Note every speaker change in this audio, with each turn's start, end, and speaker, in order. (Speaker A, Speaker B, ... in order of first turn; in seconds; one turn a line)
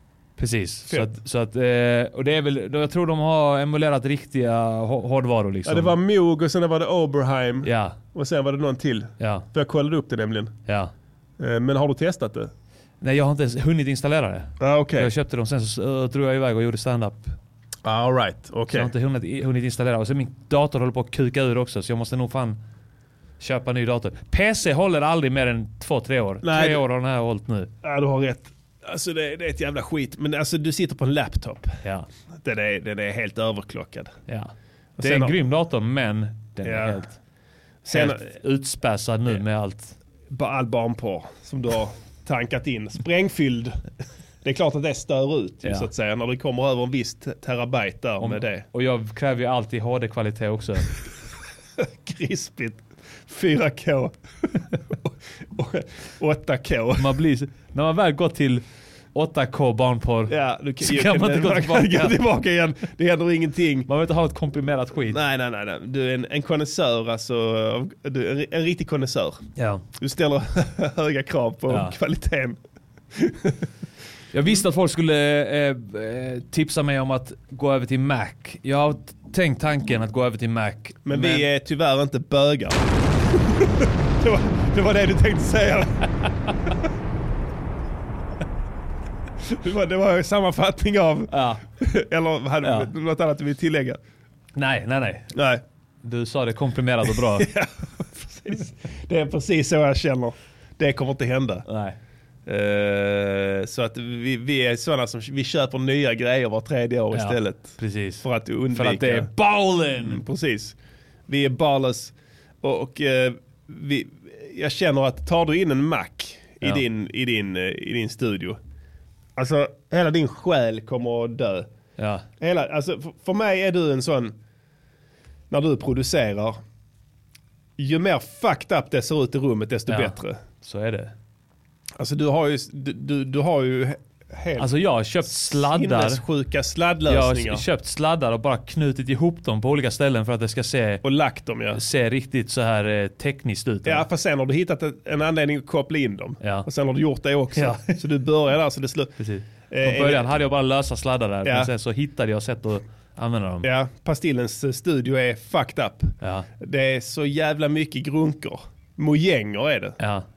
Speaker A: 0.4-6.0
Speaker B: 5.7-10.5
Speaker A: 7.6-8.0
Speaker A: 9.2-9.4
Speaker B: 11.4-12.5
Speaker A: 13.0-17.4
Speaker B: 14.6-15.1
Speaker B: 17.8-18.9
Speaker A: 18.7-22.6
Speaker A: 23.4-27.7
Speaker B: 26.4-26.8
Speaker B: 27.8-31.8
Speaker B: 32.4-34.1
Speaker A: 34.3-37.2
Speaker B: 35.0-35.3
Speaker B: 36.6-37.0
Speaker B: 37.8-38.3
Speaker A: 37.9-39.9
Speaker B: 40.3-43.8
Speaker B: 44.4-48.6
Speaker A: 45.6-45.9
Speaker A: 48.2-50.9
Speaker B: 51.8-54.1
Speaker B: 54.9-57.1
Speaker A: 57.0-62.2
Speaker B: 60.3-63.9
Speaker A: 63.9-65.2
Speaker B: 65.1-69.4
Speaker A: 69.6-69.8
Speaker B: 70.0-72.6
Speaker A: 71.7-71.9
Speaker B: 73.1-73.5
Speaker A: 74.3-81.5
Speaker B: 81.0-82.8
Speaker B: 83.5-86.1
Speaker B: 89.4-94.0
Speaker A: 91.3-91.6
Speaker A: 92.6-92.9
Speaker A: 94.5-95.3
Speaker B: 95.3-95.6
Speaker A: 96.0-97.5
Speaker B: 97.3-101.7
Speaker A: 101.7-102.0
Speaker B: 102.5-109.3
Speaker A: 107.1-110.2
Speaker B: 110.0-110.7
Speaker B: 111.3-118.6
Speaker B: 119.4-121.7
Speaker A: 122.0-122.2
Speaker B: 122.4-124.3
Speaker B: 125.5-126.6
Speaker B: 127.8-130.4
Speaker A: 129.9-131.1
Speaker B: 132.0-134.7
Speaker A: 134.6-136.2
Speaker B: 135.2-137.6
Speaker A: 137.1-141.0
Speaker B: 141.0-141.8
Speaker A: 141.7-144.1
Speaker B: 143.8-149.2
Speaker A: 146.4-146.7
Speaker A: 147.6-148.0
Speaker A: 149.2-153.7
Speaker B: 149.7-150.3
Speaker B: 151.4-151.7
Speaker B: 153.6-160.0
Speaker A: 156.2-156.5
Speaker A: 160.0-160.2